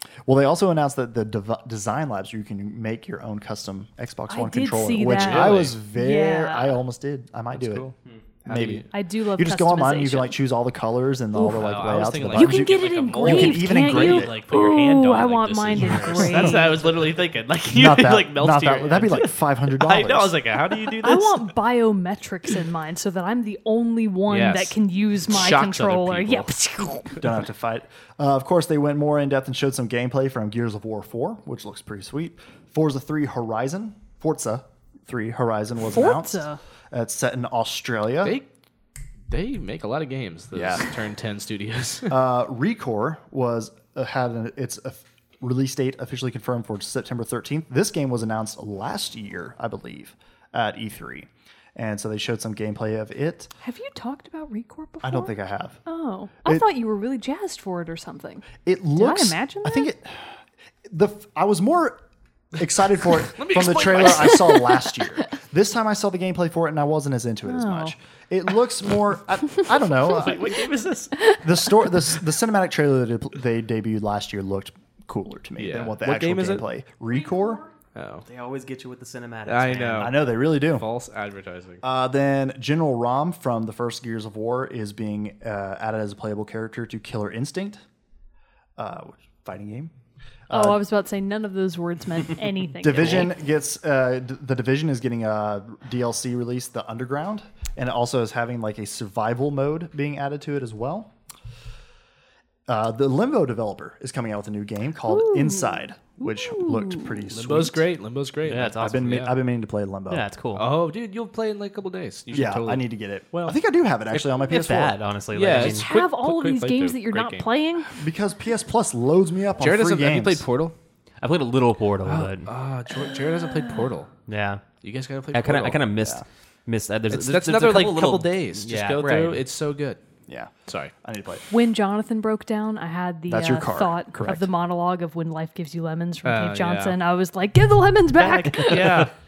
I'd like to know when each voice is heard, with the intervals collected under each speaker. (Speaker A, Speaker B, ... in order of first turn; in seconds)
Speaker A: 0.2-7.9, 8.4-14.4, 16.2-16.6, 17.7-20.4, 27.2-38.4, 40.5-40.9, 42.1-53.5, 55.0-55.8, 58.6-60.3, 60.9-62.0, 62.5-70.6, 71.4-77.6, 80.0-80.9, 81.8-87.8, 88.8-89.9, 90.5-90.8, 92.8-101.1, 102.7-107.9, 108.7-110.2, 112.3-115.0, 118.0-120.4, 130.3-130.5, 131.0-131.4, 133.3-134.5
Speaker B: 4.3-6.8, 8.9-10.4, 11.3-11.6, 12.3-16.7, 21.0-27.2, 35.9-36.6, 53.6-55.3, 55.9-59.9, 67.4-67.9, 77.3-77.7, 90.5-93.3, 105.1-107.1, 115.6-118.0, 123.0-123.7, 131.5-139.1
Speaker C: 5.0-5.8, 7.5-8.9, 11.4-21.5, 24.3-26.5, 38.2-38.5, 39.3-42.2, 63.3-64.7, 70.0-71.2, 75.6-76.6, 77.9-78.2, 79.5-81.8, 107.3-109.3, 110.5-113.6, 115.3-117.5, 119.6-120.8, 122.0-124.1, 124.8-125.9, 127.1-130.0, 130.7-130.9, 136.2-136.9, 138.2-139.1
Speaker D: 78.2-80.2, 108.4-109.3, 110.1-110.7, 114.1-115.9, 121.2-122.5, 124.3-124.6, 125.3-129.4